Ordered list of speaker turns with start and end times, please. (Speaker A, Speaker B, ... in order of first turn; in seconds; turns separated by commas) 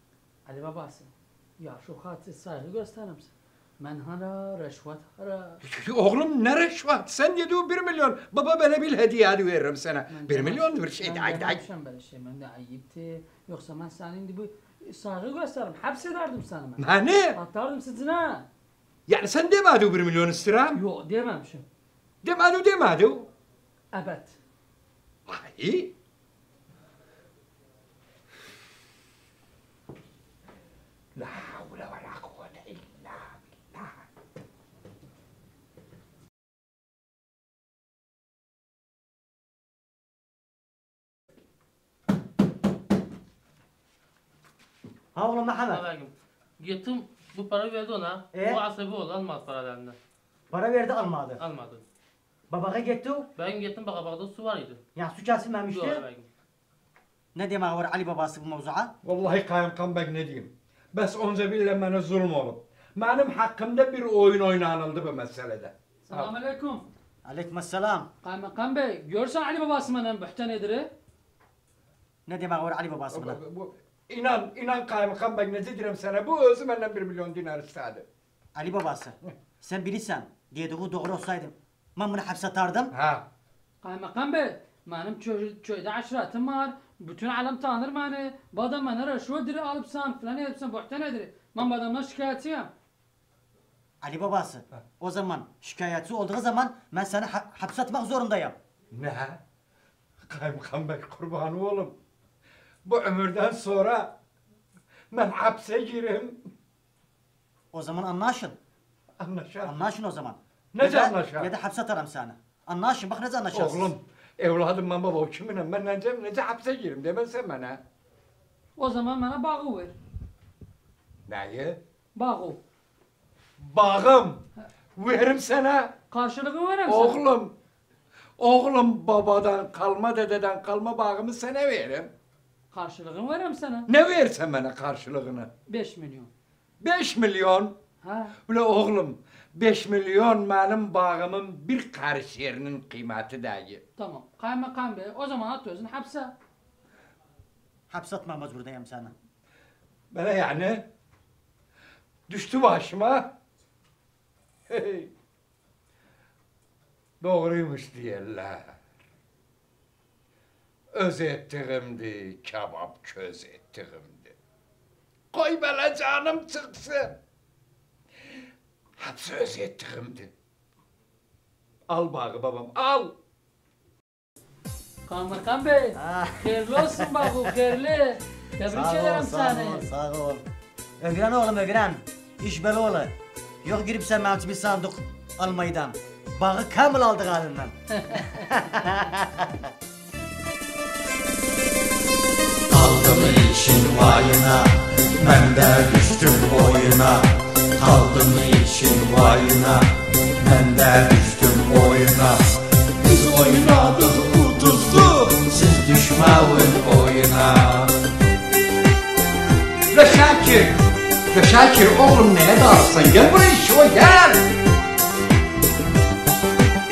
Speaker A: 0.5-5.6, Speaker B: 5.6-11.6, Speaker A: 10.1-18.5, Speaker B: 16.8-17.4, Speaker B: 19.1-20.8, Speaker A: 20.7-21.6, Speaker B: 22.2-23.3, Speaker A: 23.9-24.4, Speaker B: 25.3-25.9, Speaker B: 31.1-34.0, Speaker C: 45.1-45.8, Speaker D: 45.7-50.0, Speaker C: 48.3-48.6, Speaker C: 50.5-51.4, Speaker D: 51.4-51.8, Speaker C: 52.5-53.3, Speaker D: 53.4-54.8, Speaker C: 55.0-56.0, Speaker D: 55.7-56.3, Speaker C: 57.3-58.9, Speaker B: 59.0-66.3, Speaker A: 66.1-66.8, Speaker C: 67.2-68.1, Speaker A: 68.2-70.9, Speaker C: 72.3-73.4, Speaker B: 73.1-78.0, Speaker C: 78.5-82.9, Speaker B: 82.9-83.2, Speaker A: 83.8-92.7, Speaker C: 94.0-98.6, Speaker B: 98.9-99.4, Speaker B: 100.3-102.0, Speaker B: 102.8-104.1, Speaker B: 105.1-106.4, Speaker C: 107.7-108.6, Speaker B: 109.2-109.8, Speaker C: 109.6-113.9, Speaker B: 110.7-111.5, Speaker B: 113.5-117.8, Speaker A: 118.8-119.9, Speaker B: 121.3-121.8, Speaker A: 122.2-122.6, Speaker B: 123.6-124.4, Speaker B: 125.0-125.9, Speaker A: 126.1-127.2, Speaker B: 126.9-127.5, Speaker B: 128.4-132.1, Speaker A: 132.7-133.9, Speaker B: 133.9-135.5, Speaker A: 135.7-136.3, Speaker B: 136.8-137.8, Speaker A: 138.0-138.3, Speaker B: 138.5-143.8, Speaker A: 144.0-146.3, Speaker C: 147.9-149.1, Speaker B: 150.1-150.9, Speaker B: 152.3-153.3, Speaker B: 154.7-155.1, Speaker B: 157.2-158.8, Speaker B: 160.9-164.3, Speaker B: 165.3-167.2, Speaker B: 169.0-170.3, Speaker B: 171.9-173.1, Speaker A: 175.1-179.8, Speaker C: 175.9-177.5, Speaker C: 178.7-180.4, Speaker C: 181.0-189.7, Speaker A: 187.9-188.5, Speaker E: 192.7-202.4, Speaker B: 203.0-205.4, Speaker E: 203.1-203.6, Speaker E: 205.3-207.9, Speaker B: 209.9-210.8, Speaker B: 211.3-214.4